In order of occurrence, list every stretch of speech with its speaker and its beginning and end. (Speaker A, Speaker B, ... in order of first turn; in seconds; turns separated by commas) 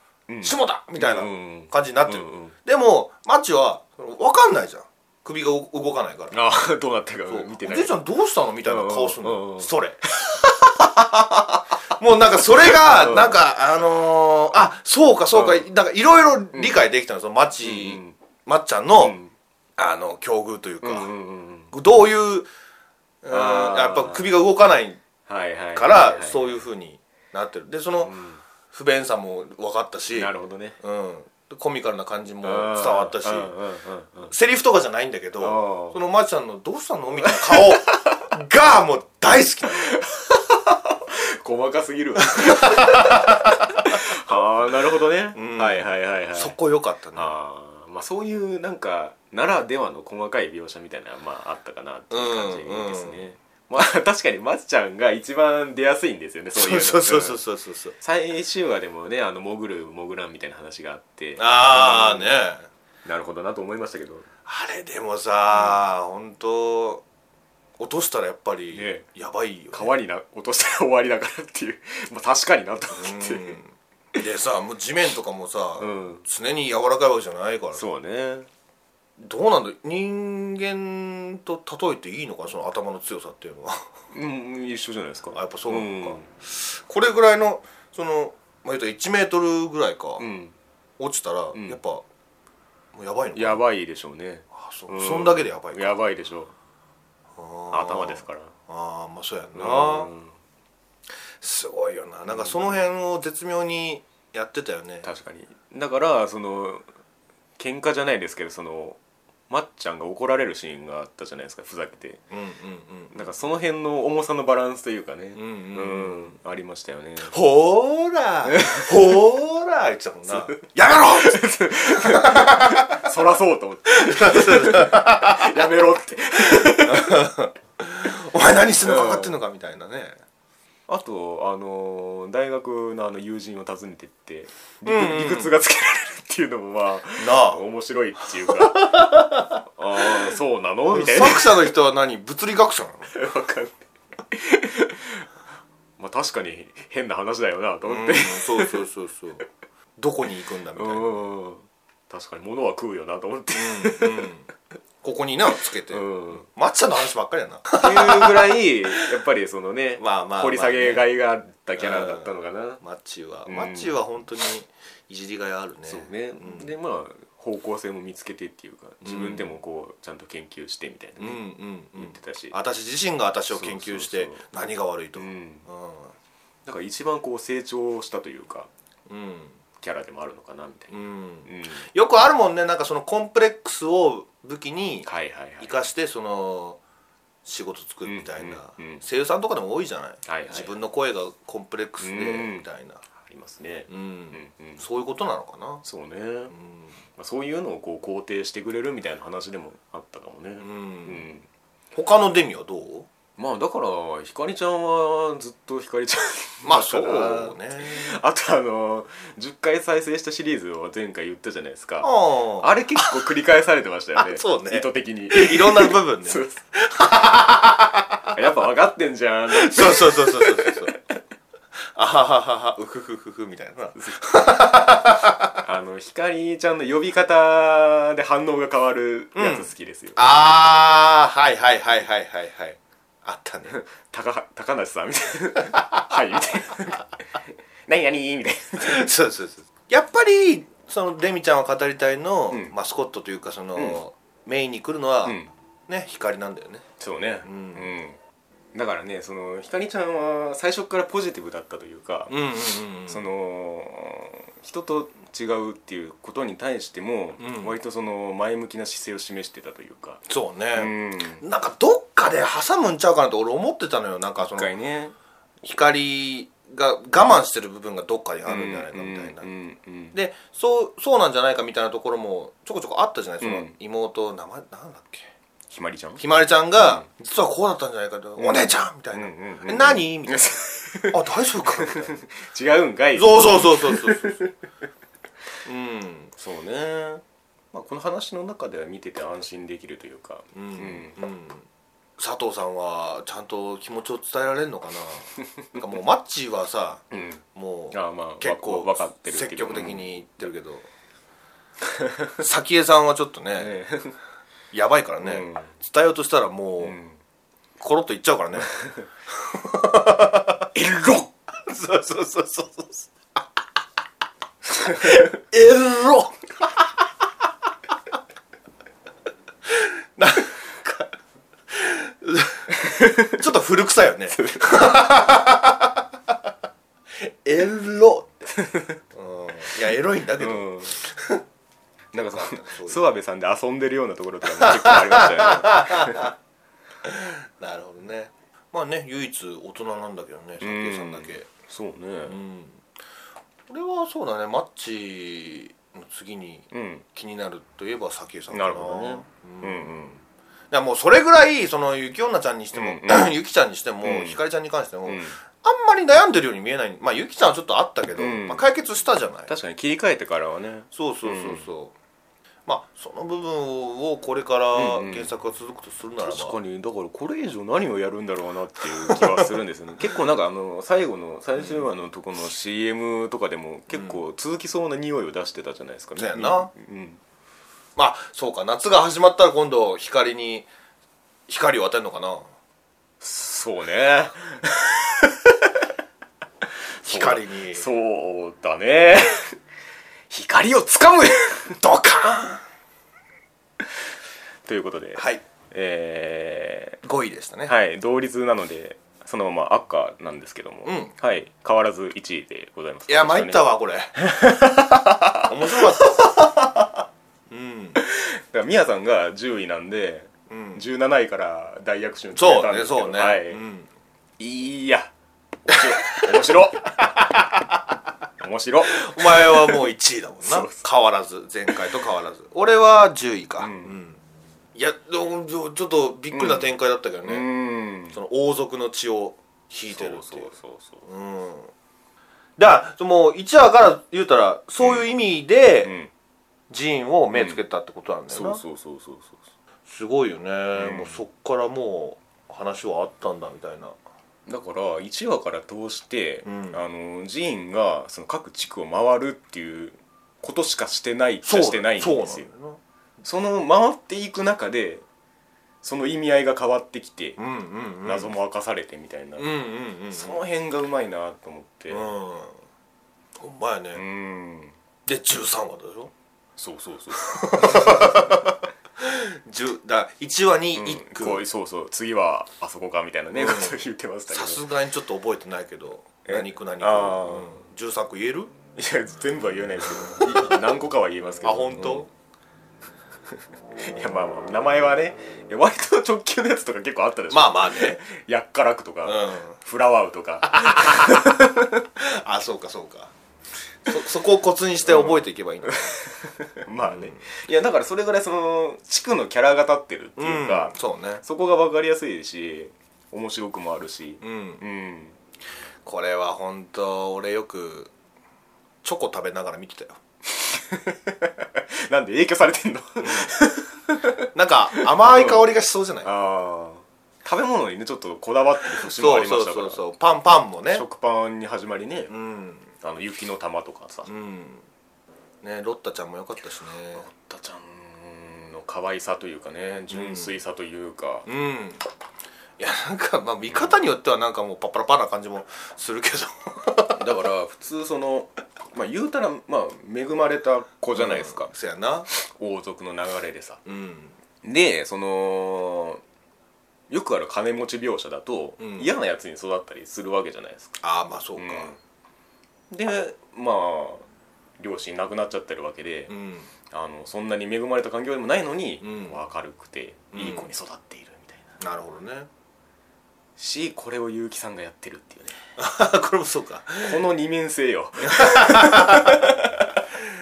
Speaker A: 0.3-2.5, Speaker B: 0.4-6.3, Speaker A: 6.3-7.9, Speaker B: 7.3-10.0, Speaker A: 8.6-11.6, Speaker B: 11.9-19.2, Speaker A: 12.6-13.4, Speaker A: 15.3-15.6, Speaker A: 16.5-16.8, Speaker A: 17.6-18.1, Speaker A: 19.0-19.3, Speaker B: 19.8-21.1, Speaker A: 20.8-21.7, Speaker B: 21.7-22.5, Speaker B: 23.2-25.0, Speaker A: 23.3-24.3, Speaker A: 25.3-26.6, Speaker B: 25.7-28.1, Speaker A: 28.0-28.4, Speaker B: 28.7-33.5, Speaker A: 30.1-30.8, Speaker A: 32.4-34.3, Speaker B: 34.3-40.0, Speaker A: 35.4-36.0, Speaker A: 37.2-38.2, Speaker A: 39.6-46.5, Speaker B: 42.3-43.6, Speaker B: 45.3-47.3, Speaker A: 47.1-57.4, Speaker B: 52.1-53.2, Speaker B: 56.5-57.9, Speaker A: 58.0-62.4, Speaker B: 61.4-62.7, Speaker A: 63.0-64.2, Speaker B: 64.5-67.0, Speaker B: 67.8-69.9, Speaker A: 68.7-69.0, Speaker A: 69.7-73.6, Speaker B: 73.0-77.8, Speaker A: 75.8-76.2, Speaker A: 77.7-78.5, Speaker B: 79.2-83.9, Speaker A: 84.1-86.3, Speaker B: 85.3-90.2, Speaker A: 90.2-90.5, Speaker B: 91.0-92.0, Speaker A: 91.5-91.8, Speaker B: 92.9-93.6, Speaker A: 93.3-96.5, Speaker B: 94.5-96.0, Speaker B: 97.3-100.1, Speaker A: 97.7-98.5, Speaker A: 99.5-100.3, Speaker B: 101.4-105.1, Speaker A: 102.3-102.7, Speaker A: 105.0-106.8, Speaker A: 107.6-112.2, Speaker B: 112.3-113.1, Speaker A: 113.1-117.3, Speaker B: 115.3-116.3, Speaker B: 117.2-123.1, Speaker A: 118.5-118.9, Speaker A: 120.3-127.3, Speaker B: 123.9-125.7, Speaker B: 126.5-130.2, Speaker A: 128.8-129.3, Speaker A: 130.9-139.0, Speaker B: 134.8-135.5, Speaker B: 137.2-137.6, Speaker B: 138.4-140.3, Speaker A: 139.8-141.7, Speaker B: 140.9-143.1, Speaker A: 143.1-145.3, Speaker A: 146.0-148.8, Speaker B: 147.8-149.4, Speaker B: 150.0-151.1, Speaker A: 150.7-154.3, Speaker B: 153.5-154.5, Speaker B: 155.0-158.6, Speaker A: 155.9-156.5, Speaker A: 157.7-162.8, Speaker B: 160.0-161.1, Speaker B: 161.8-166.7, Speaker A: 163.4-164.0, Speaker A: 165.8-171.4, Speaker B: 169.0-169.5, Speaker B: 171.2-176.1, Speaker A: 171.9-172.5, Speaker A: 173.5-174.5, Speaker A: 175.2-175.7, Speaker A: 176.7-178.7, Speaker B: 179.1-179.6, Speaker A: 179.8-181.9, Speaker B: 180.9-185.1, Speaker A: 185.0-185.8, Speaker B: 185.6-186.8, Speaker B: 187.4-193.0, Speaker A: 188.0-189.0, Speaker A: 190.2-190.7, Speaker A: 192.0-192.6, Speaker A: 193.2-194.8, Speaker B: 193.9-195.8, Speaker A: 195.8-196.5, Speaker B: 196.5-196.9, Speaker A: 197.1-201.5, Speaker B: 200.6-201.2, Speaker B: 201.9-203.1, Speaker A: 203.4-216.6, Speaker B: 206.6-208.2, Speaker B: 212.0-213.1, Speaker B: 214.2-218.3, Speaker A: 218.3-221.0, Speaker B: 219.5-220.9, Speaker B: 221.9-225.6, Speaker A: 224.0-224.2, Speaker A: 225.6-230.2, Speaker B: 229.3-233.7, Speaker A: 233.7-237.1, Speaker A: 237.9-239.1, Speaker B: 238.8-246.8, Speaker A: 245.2-245.5, Speaker A: 247.0-248.2, Speaker B: 247.4-247.9, Speaker A: 248.7-252.4, Speaker B: 252.3-253.2, Speaker A: 253.1-260.2, Speaker B: 257.4-257.7, Speaker B: 260.3-264.7, Speaker A: 260.7-261.4, Speaker A: 264.4-265.1, Speaker B: 265.6-269.5, Speaker A: 268.4-270.1, Speaker B: 270.1-275.3, Speaker A: 273.4-273.7, Speaker A: 275.7-276.2, Speaker B: 276.2-280.5, Speaker A: 276.8-277.1, Speaker A: 278.4-284.5, Speaker B: 281.1-282.2, Speaker B: 283.1-284.4, Speaker B: 285.6-286.3, Speaker A: 286.4-291.2, Speaker B: 290.5-291.6, Speaker B: 292.2-300.9, Speaker A: 297.1-300.1, Speaker A: 301.9-302.3, Speaker B: 302.4-303.8, Speaker A: 303.6-304.2, Speaker B: 304.7-307.0, Speaker A: 305.2-305.7, Speaker A: 306.8-307.2, Speaker B: 307.8-308.7, Speaker B: 309.3-310.7, Speaker A: 310.7-311.3, Speaker B: 311.6-313.4, Speaker B: 314.8-317.0, Speaker A: 314.9-315.2, Speaker B: 319.6-321.1, Speaker B: 321.7-326.0, Speaker A: 322.8-323.4, Speaker A: 324.3-324.9, Speaker B: 327.1-328.5, Speaker A: 328.5-329.0, Speaker B: 329.1-331.4, Speaker A: 330.4-331.0, Speaker A: 332.1-336.3, Speaker B: 332.1-333.0, Speaker B: 334.4-336.3, Speaker B: 337.0-341.5, Speaker A: 340.6-342.4, Speaker B: 342.3-342.8, Speaker B: 343.7-349.9, Speaker A: 346.7-347.0, Speaker A: 348.5-350.2, Speaker B: 350.7-359.5, Speaker A: 352.7-353.4, Speaker A: 354.0-354.4, Speaker A: 355.1-355.4, Speaker A: 358.2-358.6, Speaker A: 359.5-361.7, Speaker B: 360.9-361.9, Speaker B: 362.6-366.6, Speaker A: 364.7-365.3, Speaker A: 366.2-377.2, Speaker B: 369.1-369.4, Speaker B: 371.6-371.9, Speaker B: 373.9-374.2, Speaker B: 376.2-376.7, Speaker B: 377.9-380.7, Speaker B: 381.5-382.4, Speaker A: 383.2-385.9, Speaker A: 386.9-389.6, Speaker B: 387.0-387.8, Speaker A: 390.3-391.8, Speaker B: 391.7-392.6, Speaker A: 394.6-397.0, Speaker B: 395.1-395.4, Speaker B: 397.0-397.7, Speaker A: 397.6-406.7, Speaker B: 400.8-401.1, Speaker B: 403.1-404.2, Speaker B: 405.4-406.3, Speaker B: 407.5-408.0, Speaker A: 408.0-413.6, Speaker B: 410.5-410.8, Speaker B: 412.3-413.9, Speaker A: 414.4-415.1, Speaker A: 415.6-417.2, Speaker B: 415.7-416.5, Speaker B: 417.0-417.6, Speaker A: 418.4-419.9, Speaker B: 418.9-424.2, Speaker A: 420.4-420.9, Speaker A: 423.6-423.9, Speaker B: 424.7-427.4, Speaker A: 426.3-426.7, Speaker A: 427.2-428.2, Speaker B: 428.1-430.5, Speaker A: 429.9-431.0, Speaker B: 431.0-431.7, Speaker B: 432.6-435.9, Speaker A: 435.8-436.1, Speaker B: 436.7-438.6, Speaker A: 437.3-437.6, Speaker A: 438.3-439.4, Speaker B: 439.9-443.9, Speaker A: 440.8-441.2, Speaker A: 444.4-452.5, Speaker B: 446.4-446.8, Speaker B: 451.4-452.8, Speaker A: 453.2-455.0, Speaker A: 455.8-457.4, Speaker B: 457.4-458.3, Speaker A: 458.0-459.5, Speaker B: 459.4-460.4, Speaker A: 460.1-462.1, Speaker B: 461.9-462.6, Speaker B: 463.4-464.0, Speaker A: 463.9-464.7, Speaker B: 465.1-466.1, Speaker A: 466.6-468.4, Speaker B: 467.2-471.4, Speaker A: 470.7-474.6, Speaker B: 473.3-478.5, Speaker A: 476.2-477.6, Speaker A: 478.8-482.1, Speaker B: 480.0-480.6, Speaker B: 481.4-482.1, Speaker A: 483.8-491.8, Speaker B: 487.3-488.0, Speaker B: 489.0-489.6, Speaker B: 490.5-491.4, Speaker B: 491.9-493.1, Speaker B: 493.9-495.9, Speaker A: 494.9-505.2, Speaker B: 496.8-497.2, Speaker B: 500.2-501.2, Speaker B: 504.2-504.6, Speaker B: 505.8-507.9, Speaker B: 508.8-510.0, Speaker A: 510.2-515.5, Speaker B: 513.0-513.3, Speaker B: 514.3-516.1, Speaker A: 516.0-519.8, Speaker B: 518.7-520.8, Speaker A: 520.7-522.1, Speaker B: 522.1-522.7, Speaker A: 522.8-524.1, Speaker B: 524.1-524.6, Speaker B: 525.4-527.0, Speaker A: 526.9-531.3, Speaker B: 529.9-530.3, Speaker B: 531.2-531.8, Speaker B: 532.6-537.0, Speaker A: 536.9-541.5, Speaker B: 540.9-542.1, Speaker A: 542.1-543.6, Speaker B: 543.6-544.1, Speaker A: 544.4-546.0, Speaker A: 546.9-550.8, Speaker B: 548.6-548.9, Speaker B: 550.8-551.8, Speaker A: 551.4-551.8, Speaker A: 552.7-554.0, Speaker A: 554.6-556.1, Speaker B: 556.1-556.5, Speaker A: 556.7-561.5, Speaker B: 558.8-559.2, Speaker B: 560.1-560.5, Speaker B: 561.6-562.3, Speaker A: 563.4-565.4, Speaker B: 565.6-567.0, Speaker A: 566.8-569.8, Speaker B: 568.1-569.2